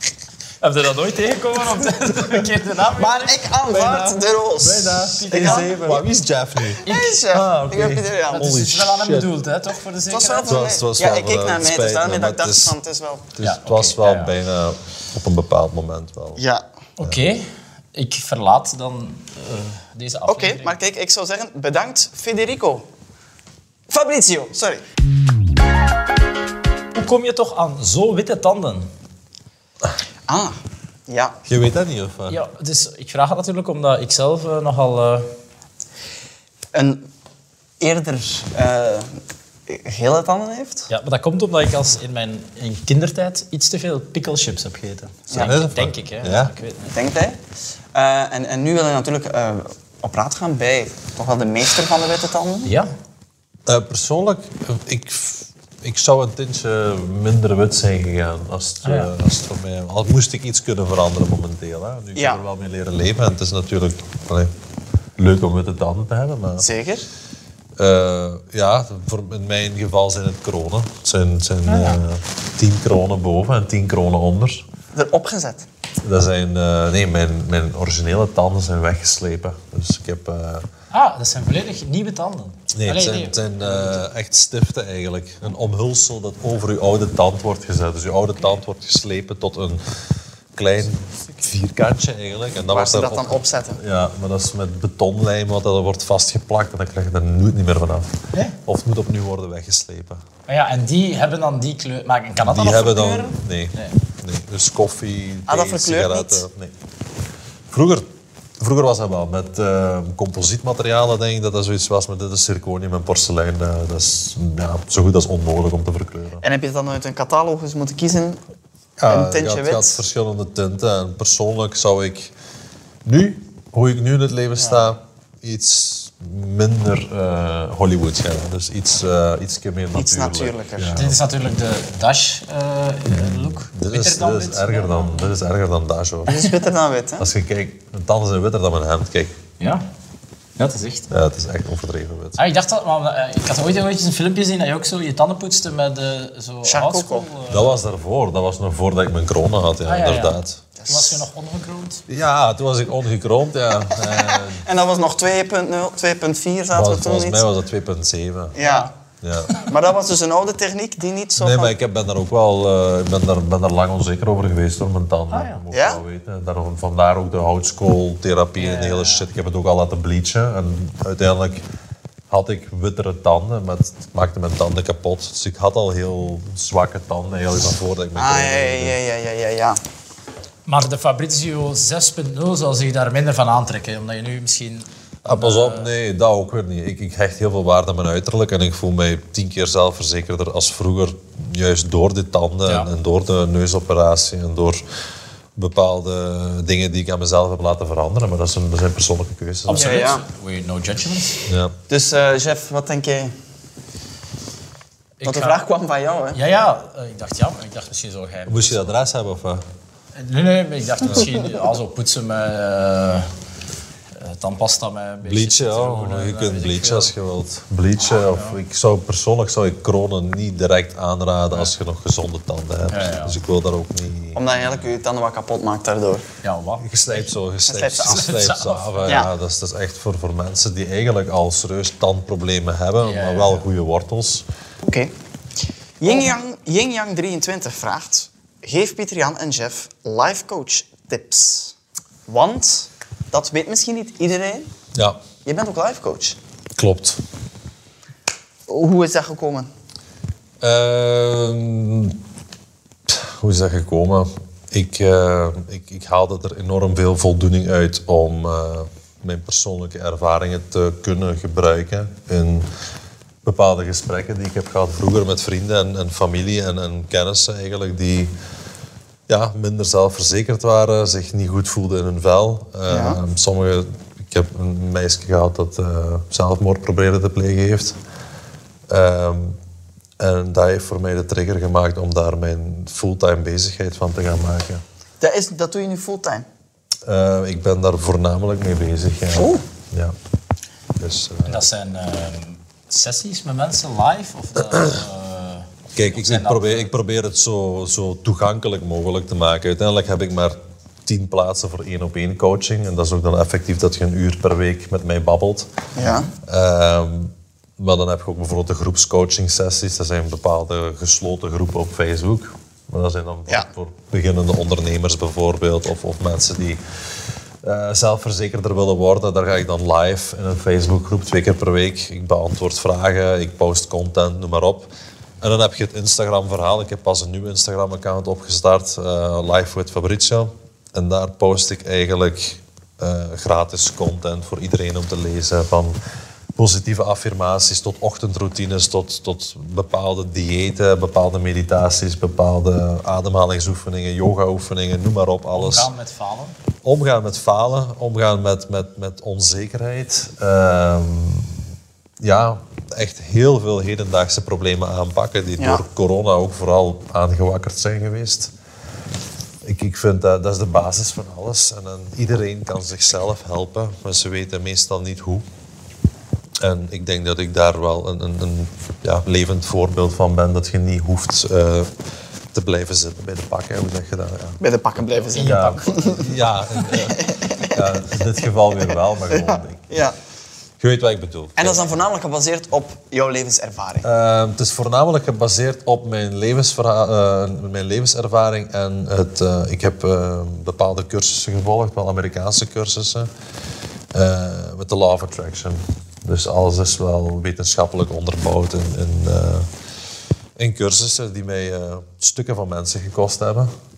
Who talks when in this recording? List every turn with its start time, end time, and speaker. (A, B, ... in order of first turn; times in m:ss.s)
0:00.6-0:03.4 A
0:02.9-0:05.9 B
0:03.7-0:09.3 C
0:05.0-0:05.9 A
0:06.8-0:07.1 A
0:06.8-0:08.4 B
0:08.3-0:10.5 A
0:10.1-0:13.3 B
0:10.4-0:12.8 C
0:13.4-0:16.4 C
0:13.4-0:14.3 A
0:16.4-0:16.6 B
0:17.0-0:20.8 A
0:20.3-0:22.8 B
0:23.9-0:24.8 B
0:26.9-0:28.9 A
0:30.3-0:30.6 B
0:31.1-0:31.4 B
0:31.4-0:32.4 C
0:32.3-0:35.3 A
0:36.7-0:37.1 B
0:37.8-0:39.2 B
0:39.7-0:40.9 B
0:40.9-0:47.0 A
0:45.3-0:46.5 C
0:46.9-0:47.4 B
0:47.9-0:52.7 B
0:52.6-0:52.9 A
0:53.6-1:04.5 C
0:58.8-0:59.1 A
1:02.1-1:02.4 B
1:05.2-1:06.6 C
1:06.6-1:07.0 B
1:07.8-1:14.6 C
1:11.6-1:12.0 A
1:14.9-1:15.7 B
1:16.0-1:20.6 C
1:20.9-1:24.0 A
1:22.7-1:29.8 C
1:30.5-1:40.2 C
1:32.7-1:33.8 B
1:40.5-1:44.0 A
1:42.4-1:46.7 C
1:45.5-1:46.4 B
1:47.7-1:56.4 C
1:56.4-1:58.4 B
1:59.0-2:02.3 C
1:59.1-2:00.0 B
2:03.0-2:11.2 C
2:04.6-2:04.8 A
2:09.9-2:11.0 B
2:10.9-2:15.3 A
2:13.1-2:16.4 C
2:16.3-2:17.3 B
2:17.2-2:19.4 C
2:19.6-2:19.8 A
2:20.6-2:21.1 A
2:21.1-2:22.4 C
2:22.4-2:27.8 A
2:26.6-2:27.3 B
2:27.5-2:30.6 C
2:29.8-2:32.0 A
2:30.8-2:31.1 B
2:32.1-2:34.6 C
2:33.9-2:37.5 B
2:36.7-2:38.6 C
2:38.5-2:38.9 B
2:38.6-2:38.9 A
2:39.2-2:39.5 C
2:39.6-2:41.7 B
2:41.4-2:51.6 C
2:45.3-2:45.6 A
2:45.7-2:46.0 B
2:48.6-2:49.3 A
2:52.3-2:59.0 C
2:58.2-2:59.8 B
3:00.6-3:05.9 A
3:05.2-3:14.8 C
3:15.6-3:20.1 C
3:19.7-3:21.4 A
3:19.7-3:20.2 B
3:21.5-3:21.8 C
3:21.9-3:23.3 B
3:25.2-3:25.6 A
3:25.2-3:26.4 B
3:26.3-3:29.0 A
3:28.5-3:29.6 C
3:30.2-3:33.3 A
3:34.2-3:37.1 A
3:35.2-3:44.8 C
3:38.1-3:38.6 A
3:42.9-3:43.4 A
3:44.3-3:46.2 B
3:46.4-3:47.2 A
3:46.8-3:54.4 C
3:47.6-3:48.3 B
3:48.0-3:49.2 A
3:49.0-3:49.3 B
3:53.0-3:53.6 A
3:54.8-3:55.1 B
3:56.0-4:01.7 B
4:02.3-4:04.7 B
4:04.9-4:05.2 C
4:05.4-4:06.4 B
4:06.8-4:07.2 C
4:08.7-4:09.7 B
4:10.6-4:12.2 C
4:13.1-4:22.7 C
4:23.4-4:28.3 C
4:29.3-4:38.0 C
4:32.9-4:33.2 B
4:38.9-4:39.6 C
4:40.2-4:44.8 C
4:45.2-4:46.4 B
4:47.0-4:50.2 C
4:49.4-4:49.6 B
4:51.0-4:51.6 C
4:51.4-4:56.9 A
4:54.7-4:55.0 C
4:55.9-5:05.7 C
5:06.0-5:06.3 B
5:06.4-5:16.8 C
5:17.6-5:24.9 C
5:25.4-5:35.9 C
5:36.6-5:45.9 C
5:45.5-5:46.6 A
5:46.8-5:51.6 C
5:52.2-5:58.5 C
5:59.6-6:05.4 C
6:06.6-6:11.9 C
6:12.5-6:14.6 C
6:14.6-6:16.3 B
6:15.3-6:16.2 A
6:15.3-6:19.9 C
6:16.8-6:18.2 B
6:18.8-6:20.1 B
6:20.8-6:21.8 C
6:21.6-6:24.1 B
6:24.0-6:33.3 C
6:34.1-6:39.7 C
6:40.6-6:43.7 C